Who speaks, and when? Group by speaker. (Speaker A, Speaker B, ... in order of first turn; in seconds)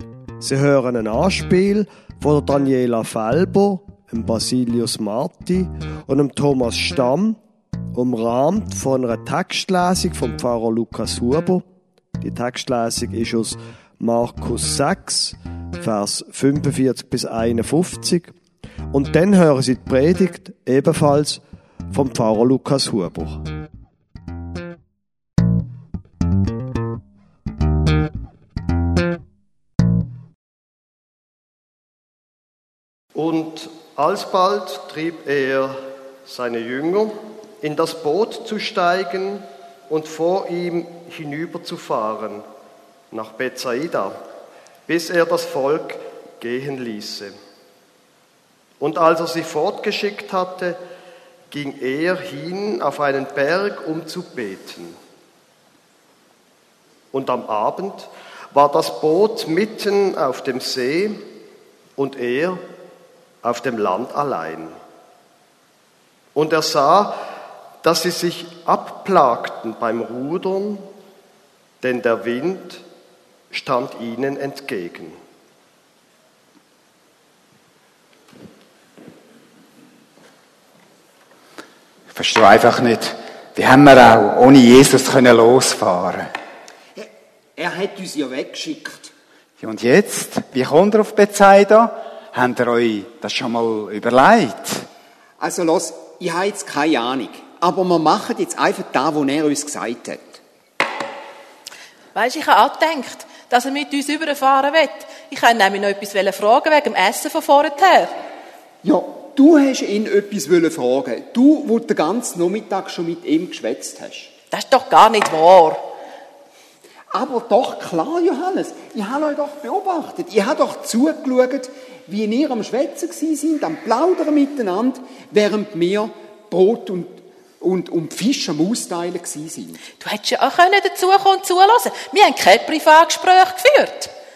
Speaker A: 0.4-7.4, 7.9-11.7, 12.2-18.3, 18.9-23.4, 33.1-42.4, 43.1-44.2, 44.9-47.3, 48.8-50.8, 51.5-55.0, 57.1-61.2, 62.0-62.6, 63.4-64.8, 66.3-67.2, 67.8-70.9, 71.8-72.8, 73.5-75.2
Speaker B: 82.1-86.3, 89.6-94.9
Speaker C: 87.0-89.1, 95.4-100.4, 108.8-114.3, 117.1-129.8
Speaker D: 102.2-108.1, 114.5-115.8, 130.0-134.1